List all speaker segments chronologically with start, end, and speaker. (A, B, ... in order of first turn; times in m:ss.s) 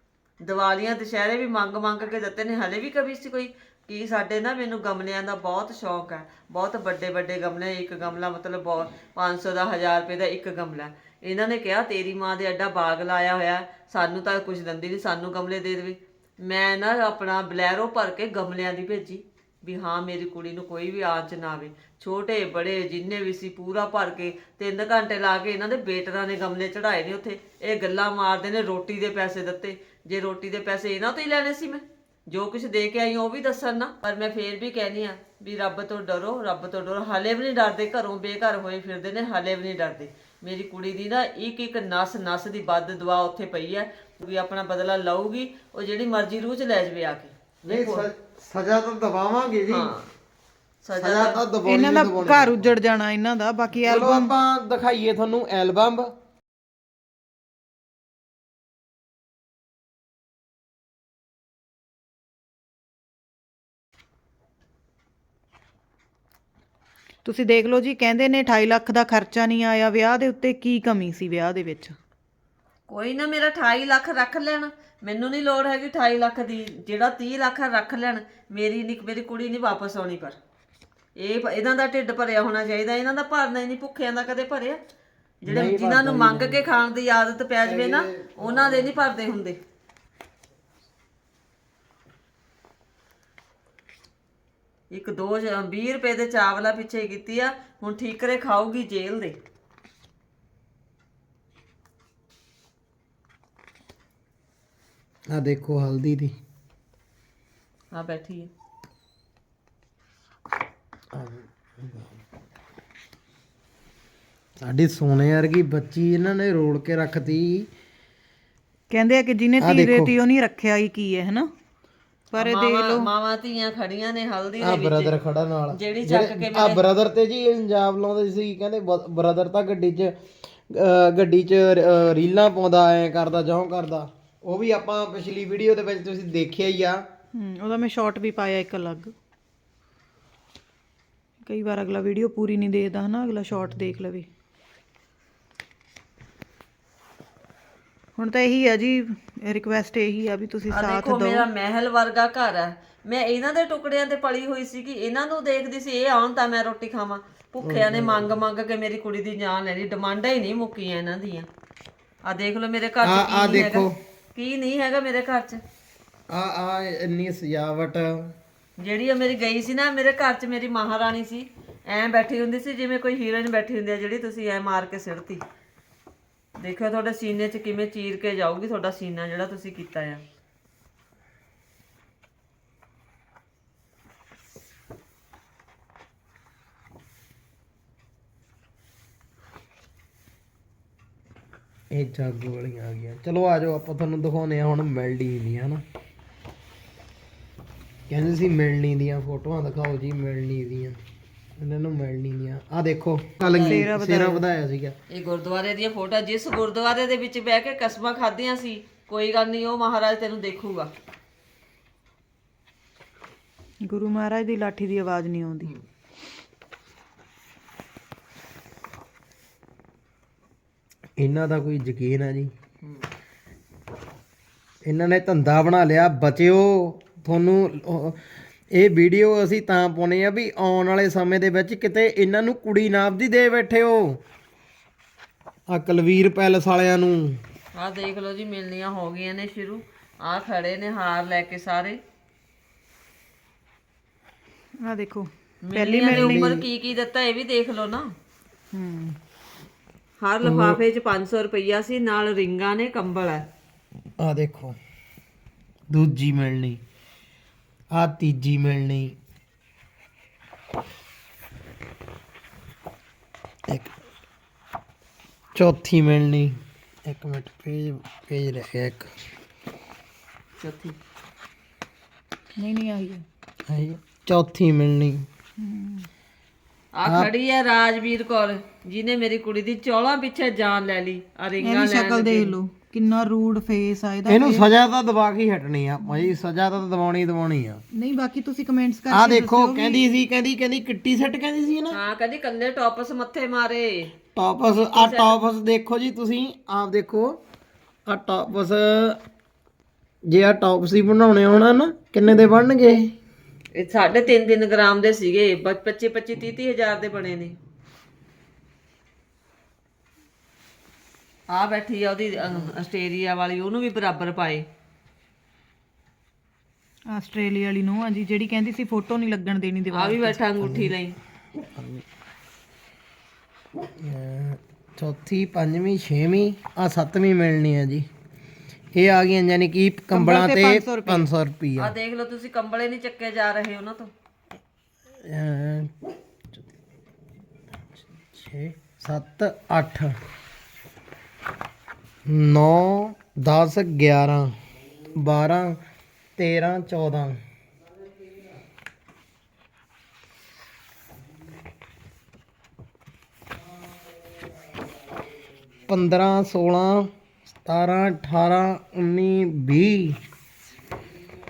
0:00.4-0:48.1 A
0:47.6-0:49.9 B
0:49.7-0:50.1 A
0:50.8-0:51.4 A
0:51.0-0:52.6 B
0:51.6-0:54.3 C
0:53.8-0:56.1 B
1:07.2-1:12.0 C
1:12.9-1:20.4 A
1:21.2-1:24.8 A
1:25.4-1:29.6 A
1:25.5-1:26.6 B
1:27.6-1:29.0 B
1:34.9-1:39.4 A
1:45.3-1:46.3 B
1:47.9-1:48.5 A
1:51.1-1:52.2 B
1:54.6-1:57.7 B
1:58.9-2:01.5 C
1:59.6-2:00.1 B
2:02.3-2:03.1 C
2:02.4-2:05.1 A
2:04.6-2:10.1 B
2:05.7-2:06.8 A
2:10.7-2:17.0 B
2:17.3-2:19.1 C
2:21.4-2:24.3 C
2:28.2-2:31.4 C
2:30.7-2:41.5 A
2:37.6-2:38.3 B
2:42.2-2:45.6 A
2:43.0-2:44.0 B
2:46.3-2:48.3 B
2:48.8-2:55.4 A
2:56.6-3:00.2 A
3:11.9-3:15.8 B
3:18.1-3:21.0 B
3:21.6-3:24.9 B
3:23.4-3:23.9 A
3:23.4-3:24.4 C
3:25.1-3:30.9 A
3:33.9-3:35.7 C
3:41.2-3:42.5 B
3:42.8-3:43.1 A
3:44.8-3:48.2 B
3:48.7-3:54.2 B
3:55.7-3:57.4 B
3:57.7-4:02.0 A
4:04.8-4:06.4 C
4:05.6-4:08.1 A
4:06.1-4:06.6 B
4:08.7-4:09.2 C
4:10.2-4:13.4 A
4:10.4-4:10.8 B
4:14.2-4:14.8 B
4:15.9-4:16.8 B
4:17.9-4:19.1 B
4:25.5-4:29.1 B
4:30.6-4:31.0 A
4:32.6-4:33.2 C
4:33.7-4:35.2 B
4:35.6-4:36.1 C
4:36.9-4:42.5 A
4:37.0-4:37.3 B
4:41.6-4:44.7 C
4:44.3-4:47.8 B
4:47.9-4:50.0 C
4:49.1-4:52.0 B
4:51.9-4:54.2 A
4:54.3-4:57.4 B
4:54.7-4:55.5 A
4:58.0-4:59.2 B
5:00.3-5:03.1 B
5:03.7-5:07.6 A
5:11.5-5:14.7 A
5:17.1-5:20.4 C
5:19.9-5:21.2 A
5:20.6-5:20.9 B
5:21.8-5:22.0 B
5:24.0-5:28.1 B
5:28.9-5:31.9 B
5:30.1-5:31.3 C
5:31.8-5:34.1 A
5:35.2-5:35.9 B
5:38.2-5:40.1 B
5:42.3-5:44.5 B
5:45.1-5:45.8 B
5:46.4-5:47.4 B
5:55.9-5:57.1 B
5:57.6-6:00.2 B